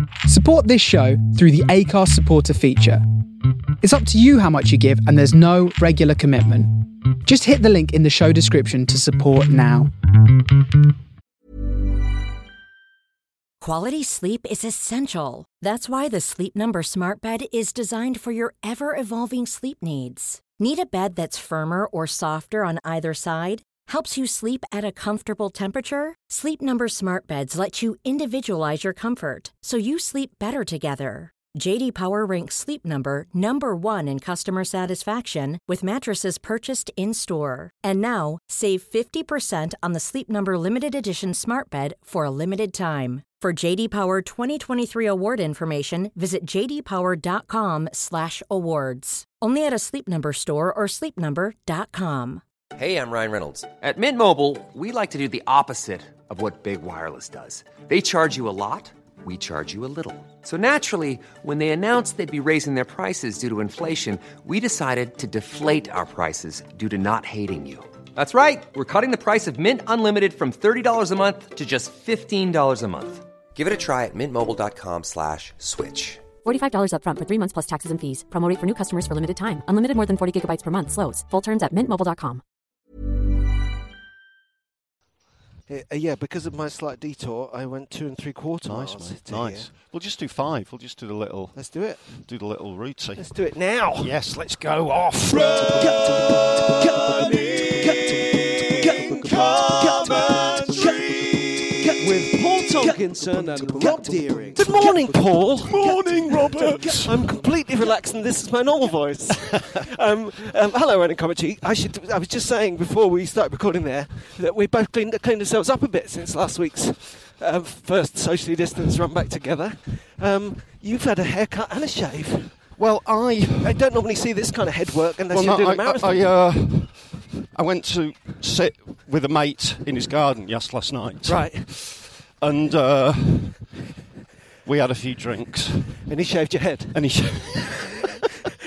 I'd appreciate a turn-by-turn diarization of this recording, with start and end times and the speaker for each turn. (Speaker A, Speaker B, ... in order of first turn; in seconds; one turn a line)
Speaker A: 0.2-3.0
Speaker A: 3.8-9.9
Speaker B: 13.6-52.4
Speaker C: 52.8-76.2
Speaker D: 76.4-82.4
Speaker E: 85.7-89.7
Speaker F: 88.6-93.3
Speaker E: 91.5-92.3
Speaker E: 93.2-94.1
Speaker F: 94.0-102.5
Speaker E: 95.3-122.6
Speaker F: 104.5-107.3
Speaker F: 122.8-123.8
Speaker E: 123.6-126.3
Speaker F: 125.3-133.7
Speaker E: 131.2-131.7
Speaker F: 134.6-136.1
Speaker E: 136.1-137.5
Speaker F: 136.9-138.1